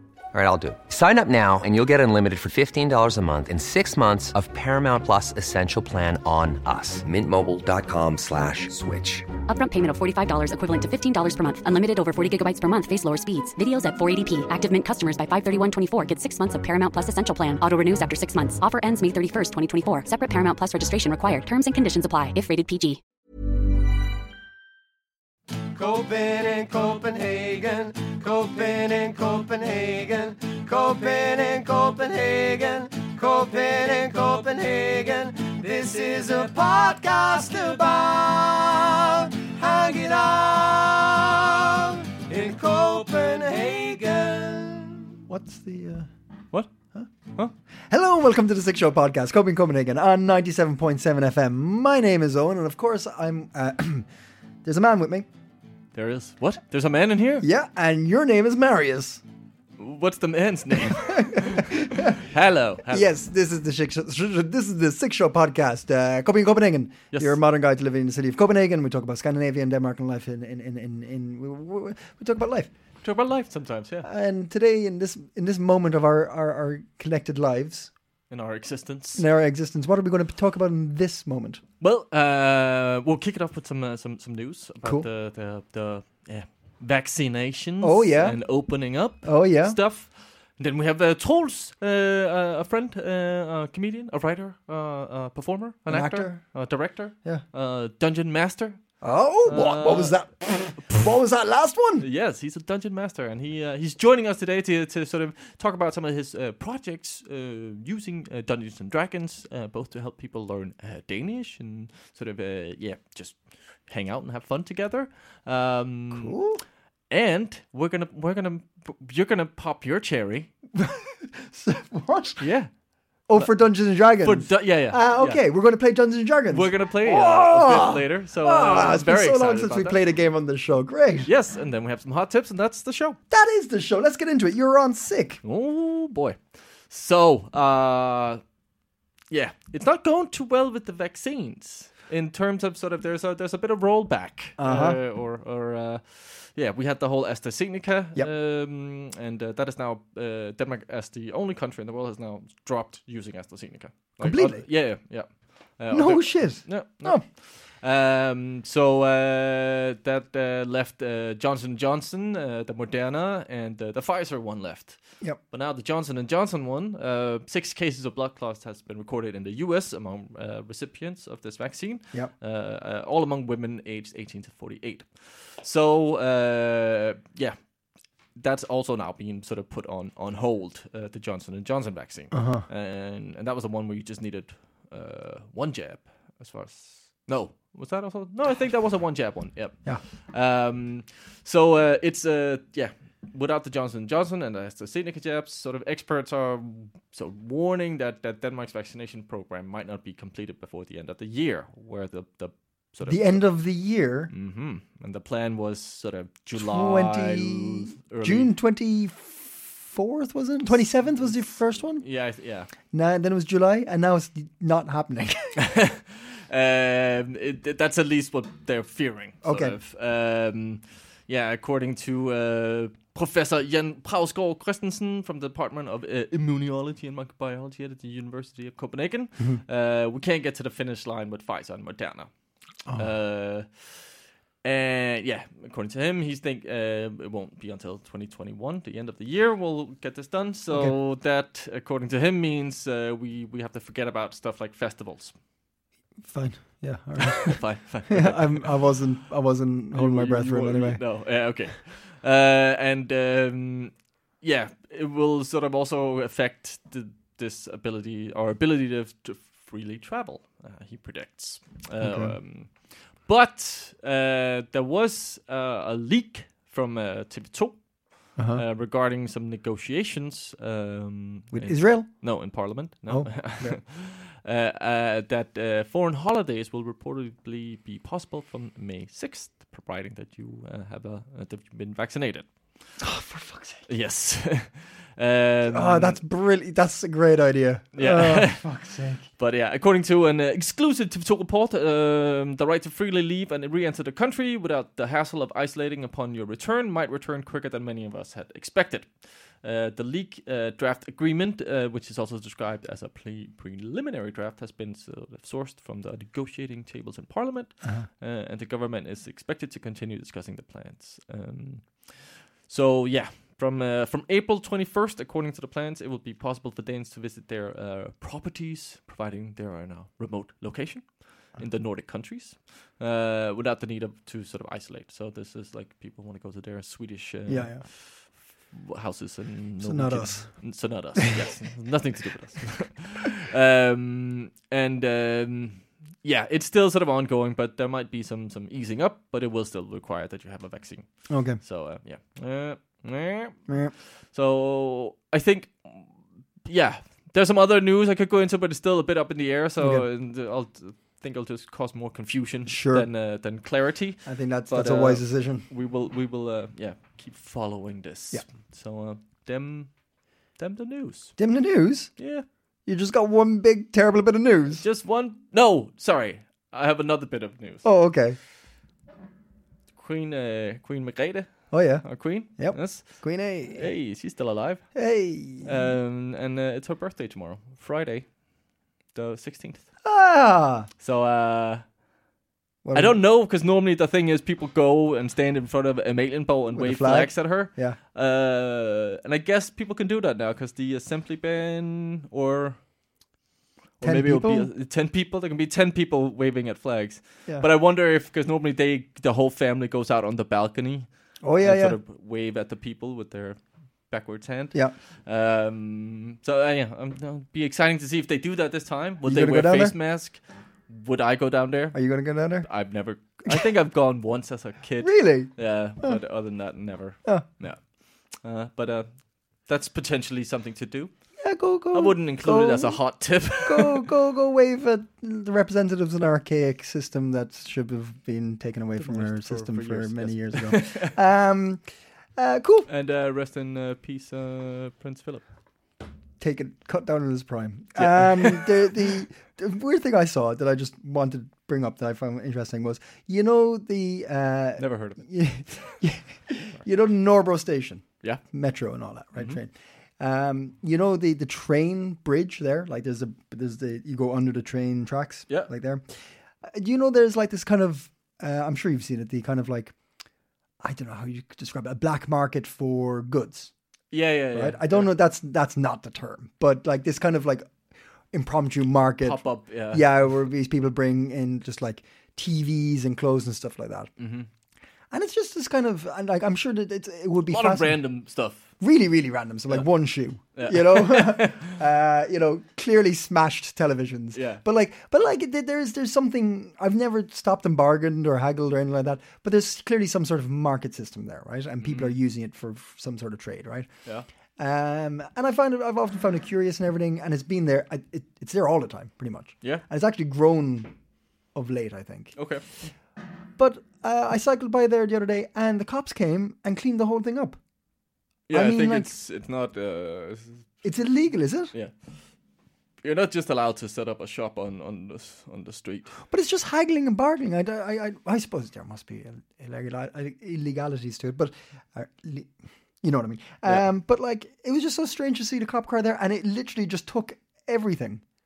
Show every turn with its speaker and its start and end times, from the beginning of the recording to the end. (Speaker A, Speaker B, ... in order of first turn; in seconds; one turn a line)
Speaker A: 0.3-9.3
Speaker B: 9.5-23.0
Speaker C: 25.7-45.1
Speaker D: 45.3-46.1
Speaker D: 47.9-54.1
Speaker D: 54.6-55.3
Speaker E: 55.9-57.5
Speaker D: 57.4-59.2
Speaker E: 59.8-63.1
Speaker D: 60.8-62.1
Speaker D: 62.9-72.7
Speaker E: 67.1-67.4
Speaker E: 73.0-74.1
Speaker D: 74.0-77.9
Speaker E: 78.3-79.2
Speaker D: 79.2-81.6
Speaker E: 81.8-100.2
Speaker D: 87.8-88.6
Speaker D: 89.2-89.8
Speaker D: 95.9-96.5
Speaker D: 99.0-102.1
Speaker E: 102.0-116.3
Speaker D: 116.1-116.6
Speaker E: 117.1-120.5
Speaker D: 120.7-122.5
Speaker E: 122.4-122.7
Speaker D: 123.3-131.3
Speaker E: 124.2-125.4
Speaker E: 126.5-130.0
Speaker E: 131.3-133.2
Speaker D: 133.3-135.4
Speaker E: 135.4-138.4
Speaker E: 139.3-177.6
Speaker D: 144.6-145.0
Speaker D: 154.2-154.7
Speaker D: 155.9-157.2
Speaker E: 178.3-203.5
Speaker D: 182.3-182.7
Speaker D: 203.1-204.3
Speaker E: 204.3-208.5
Speaker D: 206.6-212.1
Speaker E: 211.0-212.7
Speaker D: 212.9-215.6
Speaker E: 215.6-232.3
Speaker D: 219.4-219.8
Speaker E: 232.9-245.3
Speaker D: 246.2-251.0
Speaker E: 247.2-249.0
Speaker E: 249.9-282.8
Speaker D: 262.0-262.4
Speaker D: 268.4-268.6
Speaker D: 271.5-273.8
Speaker D: 283.0-283.9
Speaker E: 283.9-286.2
Speaker D: 285.7-289.3
Speaker E: 287.9-288.7
Speaker E: 289.4-343.7
Speaker D: 327.5-327.9
Speaker D: 329.8-331.2
Speaker D: 341.3-341.6
Speaker D: 343.7-343.9
Speaker E: 344.2-359.9
Speaker D: 352.7-353.1
Speaker D: 354.2-355.7
Speaker E: 360.6-361.4
Speaker D: 361.4-362.1
Speaker E: 362.2-362.5
Speaker D: 362.9-364.8
Speaker E: 364.8-367.9
Speaker D: 367.8-368.4
Speaker E: 370.0-375.0
Speaker D: 371.7-373.9
Speaker D: 374.9-375.8
Speaker E: 375.6-378.4
Speaker E: 379.1-379.9
Speaker D: 380.0-380.9
Speaker E: 381.0-381.9
Speaker D: 382.8-383.2
Speaker E: 382.9-392.8
Speaker D: 386.7-388.0
Speaker E: 394.0-412.0
Speaker D: 394.0-394.7
Speaker D: 401.4-402.0
Speaker D: 409.2-409.9
Speaker D: 411.9-412.7
Speaker E: 412.6-421.1
Speaker D: 415.0-416.2
Speaker D: 421.4-431.8
Speaker E: 421.9-424.1
Speaker E: 429.0-431.2
Speaker D: 432.4-432.9
Speaker E: 432.9-435.4
Speaker D: 436.4-459.9
Speaker E: 438.0-438.7
Speaker E: 444.8-445.2
Speaker D: 460.8-463.7
Speaker E: 464.1-465.1
Speaker D: 464.5-467.7
Speaker D: 468.3-474.1
Speaker E: 469.2-470.1
Speaker E: 474.2-474.5
Speaker D: 475.1-478.0
Speaker E: 477.5-478.7
Speaker D: 478.8-493.9
Speaker E: 480.5-481.7
Speaker E: 484.3-484.6
Speaker E: 491.8-492.2
Speaker D: 494.6-500.9
Speaker D: 501.6-502.4
Speaker E: 502.4-502.7
Speaker D: 503.6-507.6
Speaker E: 508.5-510.7
Speaker D: 508.5-509.1
Speaker D: 510.8-511.7
Speaker E: 511.7-512.0
Speaker E: 513.0-516.1
Speaker D: 516.3-528.2